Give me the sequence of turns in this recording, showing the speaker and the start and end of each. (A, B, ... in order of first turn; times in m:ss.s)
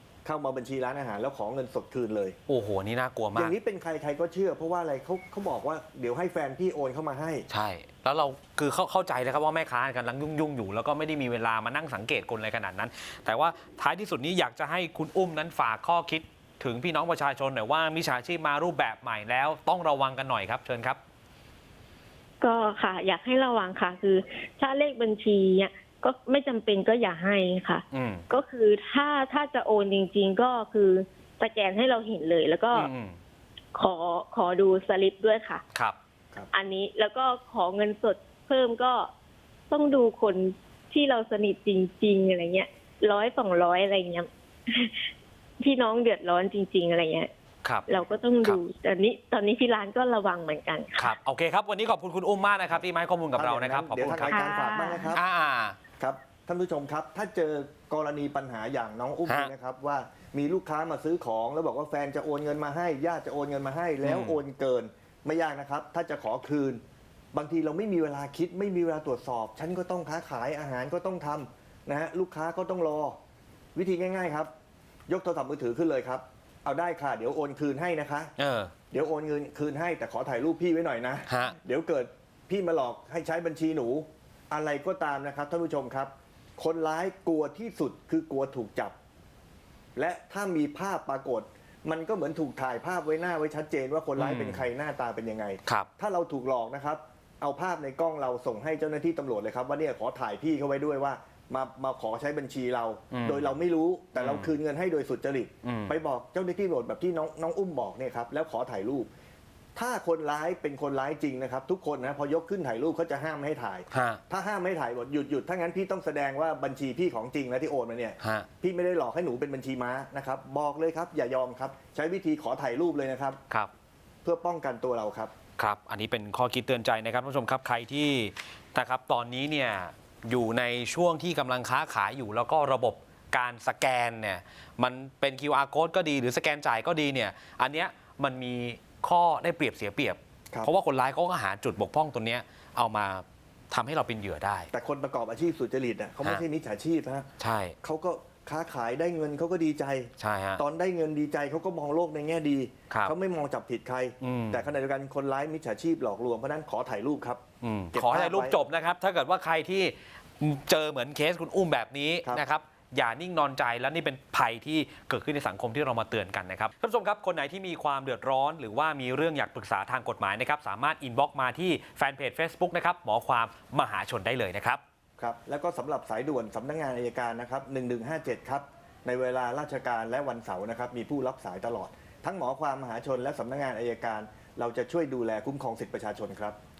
0:00.2-0:02.4 A
0:02.5-0:03.5 B
0:03.3-0:07.4 A
0:07.5-0:21.0 B
0:22.4-0:32.9 C
0:27.9-0:28.2 B
0:32.7-0:33.2 B
0:33.7-0:35.6 C
0:36.5-0:39.1 C
0:39.7-0:45.1 C
0:45.6-0:47.3 C
0:47.6-0:48.6 B
0:47.9-0:51.1 C
0:51.0-0:54.5 B
0:53.4-0:55.2 A
0:54.3-0:55.2 C
0:55.1-0:55.8 B
0:56.0-1:06.8 A
0:59.3-0:59.5 B
1:04.0-1:04.4 B
1:07.3-1:13.2 A
1:13.7-1:14.5 A
1:15.1-1:18.3 A
1:18.4-1:18.7 B
1:18.9-1:28.9 A
1:21.3-1:21.6 B
1:30.0-1:49.1 A
1:34.2-1:34.7 B
1:43.1-1:43.5 B
1:44.2-1:44.6 B
1:45.6-1:46.0 B
1:49.8-2:03.4 A
1:53.9-1:54.2 B
1:58.2-1:58.5 B
2:04.2-2:05.3 A
2:05.6-2:24.7 B
2:24.7-2:38.6 A
2:27.4-2:27.7 B
2:30.2-2:30.6 B
2:34.2-2:34.7 B
2:37.6-2:54.8 B
2:55.2-3:06.6 A